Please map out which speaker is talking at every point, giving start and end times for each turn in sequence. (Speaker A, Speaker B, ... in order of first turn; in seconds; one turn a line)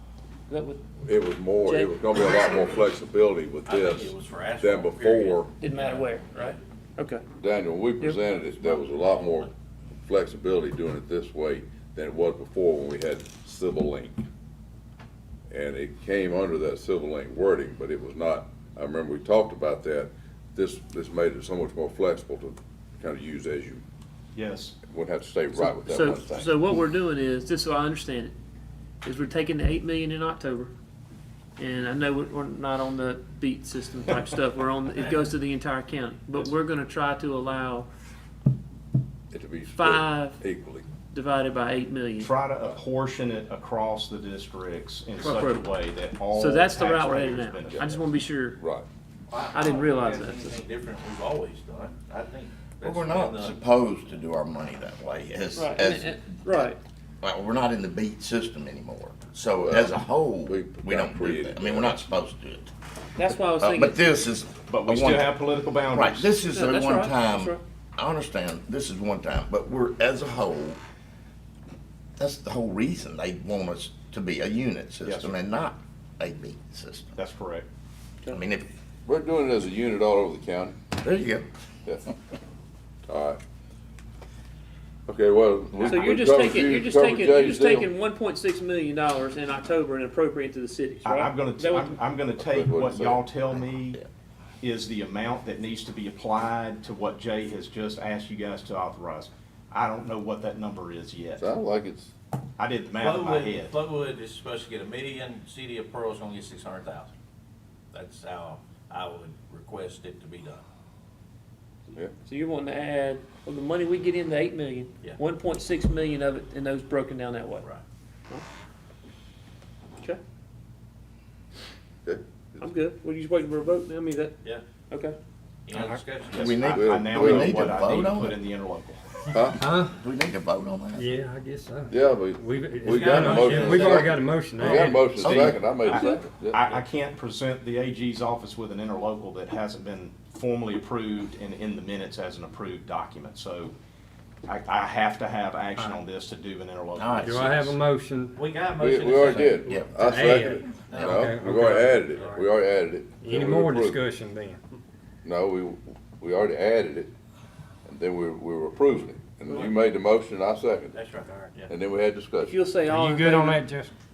Speaker A: 0.5-0.8
Speaker B: 1.1-2.2
Speaker A: 1.6-2.5
Speaker C: 2.2-3.0
Speaker B: 3.0-4.1
Speaker D: 3.6-6.6
Speaker C: 4.6-5.5
Speaker A: 5.6-7.2
Speaker B: 7.4-9.5
Speaker D: 8.3-9.5
Speaker B: 10.0-14.3
Speaker B: 15.5-23.8
Speaker E: 24.4-24.8
Speaker B: 24.8-26.6
Speaker A: 25.7-28.3
Speaker A: 29.0-30.7
Speaker A: 31.6-37.9
Speaker B: 39.3-40.9
Speaker A: 39.8-40.4
Speaker A: 41.1-42.3
Speaker E: 42.2-48.1
Speaker A: 45.2-45.7
Speaker A: 46.3-48.6
Speaker B: 48.6-48.9
Speaker D: 49.3-53.6
Speaker A: 49.4-50.6
Speaker F: 52.8-56.7
Speaker A: 55.5-56.8
Speaker F: 57.2-62.7
Speaker B: 59.6-59.9
Speaker B: 60.5-62.0
Speaker A: 63.2-64.0
Speaker F: 63.6-70.8
Speaker E: 64.7-66.3
Speaker A: 66.5-67.6
Speaker F: 72.2-77.2
Speaker E: 75.0-75.4
Speaker E: 77.2-77.7
Speaker F: 78.3-78.7
Speaker B: 79.1-80.8
Speaker F: 81.0-81.5
Speaker B: 83.1-83.4
Speaker B: 85.1-87.9
Speaker A: 85.8-92.0
Speaker E: 91.0-94.0
Speaker B: 92.4-93.2
Speaker F: 93.5-94.0
Speaker E: 94.6-101.5
Speaker B: 101.4-102.1
Speaker E: 102.6-103.8
Speaker D: 103.0-107.1
Speaker D: 107.9-110.6
Speaker A: 112.2-117.7
Speaker B: 122.0-122.6
Speaker A: 122.6-125.2
Speaker D: 125.7-126.6
Speaker E: 125.7-129.0
Speaker F: 126.3-128.4
Speaker B: 126.7-127.5
Speaker B: 129.3-129.7
Speaker C: 129.6-129.9
Speaker F: 129.8-131.2
Speaker C: 131.0-136.0
Speaker B: 131.9-136.8
Speaker D: 132.8-134.2
Speaker F: 134.6-135.6
Speaker E: 135.3-143.8
Speaker E: 144.5-147.8
Speaker F: 146.9-147.5
Speaker C: 147.2-152.3
Speaker D: 148.3-149.7
Speaker B: 148.8-154.0
Speaker F: 149.2-149.9
Speaker D: 150.4-152.5
Speaker C: 153.2-154.6
Speaker B: 155.2-157.1
Speaker B: 157.9-161.0
Speaker D: 159.5-159.8
Speaker D: 160.9-161.7
Speaker B: 161.7-162.6
Speaker A: 162.5-163.6
Speaker C: 162.8-163.9